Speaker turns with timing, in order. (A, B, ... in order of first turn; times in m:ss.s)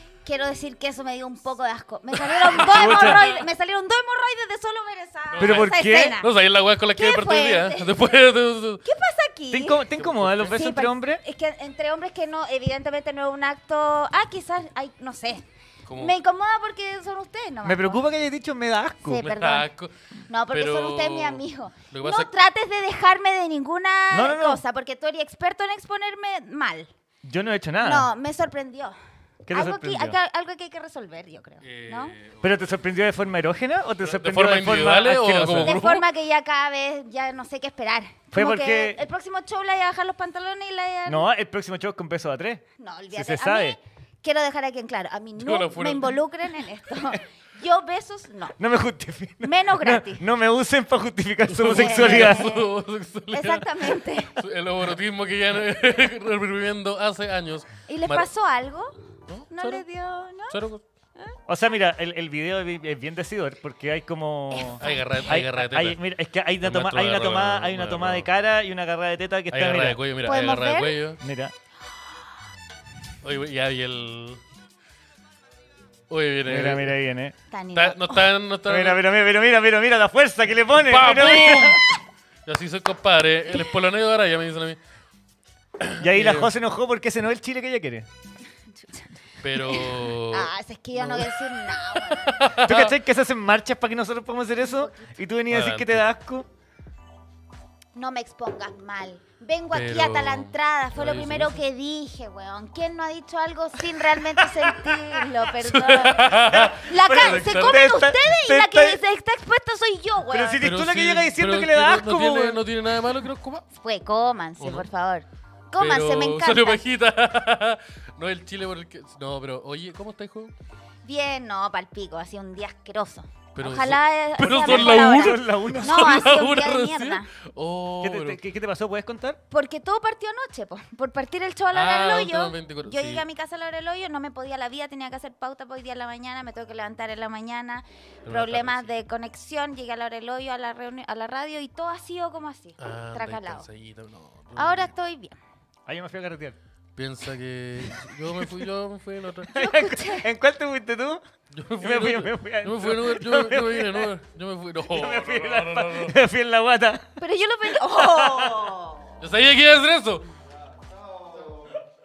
0:00.2-0:06.3 A
0:02.3-0:03.4 B
0:02.7-0:03.3 C
0:05.3-0:08.8 B
0:05.4-0:06.2 C
0:07.0-0:08.0 A
0:08.8-0:09.8 A
0:09.5-0:11.2 C
0:10.0-0:10.5 B
0:10.5-0:18.0 A
0:15.9-0:16.2 B
0:17.6-0:19.3 C
0:19.1-0:19.7 A
0:19.2-0:19.9 B
0:20.3-0:26.9 A
0:20.5-0:22.3 B
0:24.1-0:24.6 C
0:27.2-0:28.1 C
0:27.8-0:29.0 A
0:29.4-0:30.2 C
0:29.5-0:32.2 A
0:31.6-0:32.5 B
0:32.4-0:35.8 C
0:34.0-0:36.0 B
0:35.6-0:41.3 A
0:38.3-0:39.0 C
0:41.1-0:43.8 C
0:42.8-0:48.6 A
0:45.4-0:46.2 B
0:48.6-0:52.5 C
0:49.4-0:50.2 A
0:51.5-0:58.3 B
0:51.7-0:52.7 A
0:53.3-0:54.4 A
0:57.9-0:59.0 A
0:59.3-0:59.9 B
0:59.5-1:00.6 A
1:00.5-1:00.8 B
1:01.5-1:10.0 C
1:04.5-1:05.2 A
1:04.8-1:06.0 B
1:06.6-1:08.3 B
1:09.5-1:11.2 B
1:10.2-1:11.0 A
1:11.2-1:11.5 C
1:13.2-1:14.4 B
1:16.1-1:17.0 B
1:16.5-1:17.4 C
1:17.5-1:18.3 A
1:17.7-1:19.1 B
1:18.7-1:21.8 C
1:20.8-1:24.8 B
1:25.8-1:26.5 B
1:26.0-1:28.1 C
1:28.8-1:32.4 A
1:29.4-1:33.0 B
1:32.6-1:36.5 C
1:34.6-1:35.1 A
1:35.5-1:36.0 B
1:37.9-1:50.6 A
1:39.7-1:41.6 B
1:45.6-1:47.9 B
1:46.5-1:49.0 C
1:50.3-1:52.6 C
1:50.6-1:53.6 B
1:53.7-1:56.8 A
1:54.6-1:54.9 B
1:55.8-2:00.5 B
2:01.0-2:07.3 A
2:03.6-2:08.4 B
2:04.6-2:06.2 C
2:08.0-2:09.4 C
2:09.5-2:23.7 A
2:11.7-2:13.3 B
2:18.3-2:18.9 B
2:22.8-2:24.9 B
2:24.6-2:25.4 A
2:25.9-2:26.6 C
2:27.0-2:29.5 B
2:29.5-2:31.2 C
2:29.5-2:30.3 A
2:31.5-2:36.2 B
2:31.8-2:34.1 C
2:34.9-2:37.2 C
2:37.2-2:39.0 A
2:37.8-2:38.7 C
2:39.2-2:40.3 B